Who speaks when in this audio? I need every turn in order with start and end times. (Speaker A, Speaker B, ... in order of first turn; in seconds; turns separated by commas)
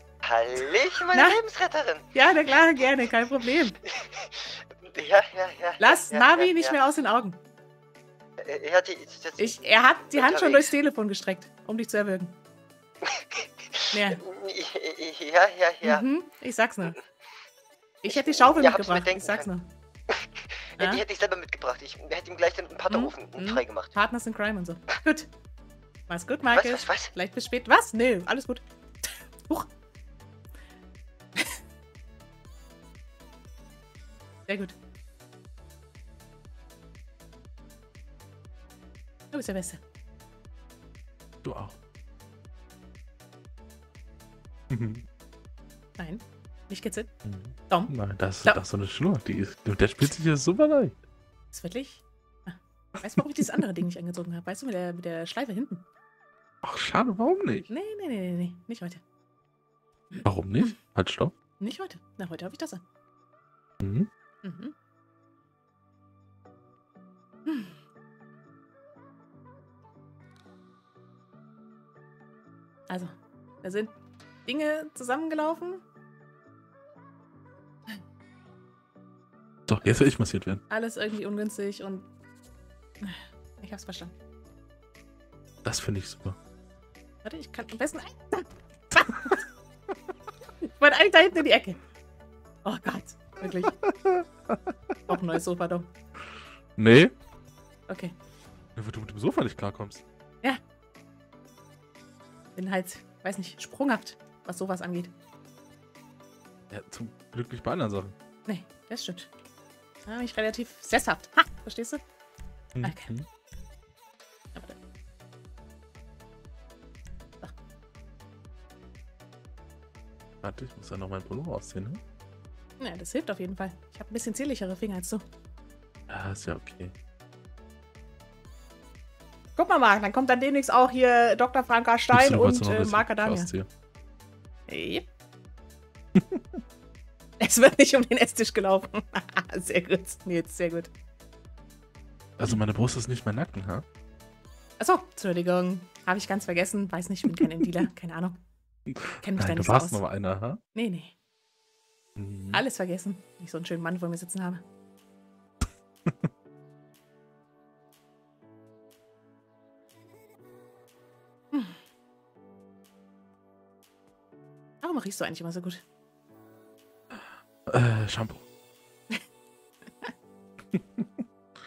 Speaker A: 0.2-2.1, Speaker B: 1.1-1.4, Speaker B: 2.1-3.8, Speaker A: 4.0-6.7, Speaker B: 5.8-7.4, Speaker A: 8.4-9.6, Speaker B: 9.4-12.3, Speaker A: 10.1-10.7, Speaker A: 13.0-16.0, Speaker B: 13.9-14.2, Speaker B: 15.8-16.9, Speaker B: 18.0-19.7, Speaker A: 18.1-19.5, Speaker A: 20.1-23.9, Speaker B: 22.9-25.3, Speaker B: 26.1-29.7, Speaker A: 26.5-27.1, Speaker B: 34.5-34.8, Speaker B: 39.3-39.8, Speaker C: 41.4-41.8, Speaker C: 44.7-45.0, Speaker B: 46.0-47.1, Speaker C: 47.2-51.0, Speaker B: 47.7-48.6, Speaker B: 51.5-55.8, Speaker C: 56.6-57.7, Speaker B: 57.7-59.0, Speaker B: 60.1-60.7, Speaker C: 60.2-61.3, Speaker B: 61.6-62.8, Speaker C: 63.8-64.1, Speaker B: 64.4-64.7, Speaker B: 67.5-67.7, Speaker B: 72.9-73.9, Speaker B: 74.5-75.8, Speaker C: 79.7-80.6, Speaker B: 80.7-82.1, Speaker B: 83.0-84.1, Speaker C: 85.6-86.4, Speaker B: 87.2-89.4, Speaker B: 90.6-91.8, Speaker B: 92.6-93.8, Speaker C: 93.8-94.7, Speaker B: 95.1-95.9, Speaker C: 96.8-97.1, Speaker B: 97.9-98.1, Speaker C: 98.8-100.0, Speaker B: 102.5-105.1, Speaker C: 106.7-108.1, Speaker B: 108.5-109.3, Speaker B: 110.0-112.0, Speaker C: 112.7-113.3, Speaker B: 112.8-113.1, Speaker C: 120.4-122.0, Speaker B: 122.8-125.2, Speaker C: 126.1-126.9, Speaker B: 129.6-133.5, Speaker C: 132.1-133.7, Speaker B: 134.7-135.1, Speaker C: 136.1-136.4, Speaker B: 137.4-140.9, Speaker C: 142.4-143.8, Speaker B: 144.8-148.4, Speaker C: 148.9-150.6, Speaker B: 149.2-150.0, Speaker B: 150.7-151.1, Speaker C: 152.2-152.6, Speaker B: 152.5-154.6, Speaker B: 161.5-161.8, Speaker B: 164.8-165.8, Speaker C: 167.1-168.4, Speaker C: 170.7-171.2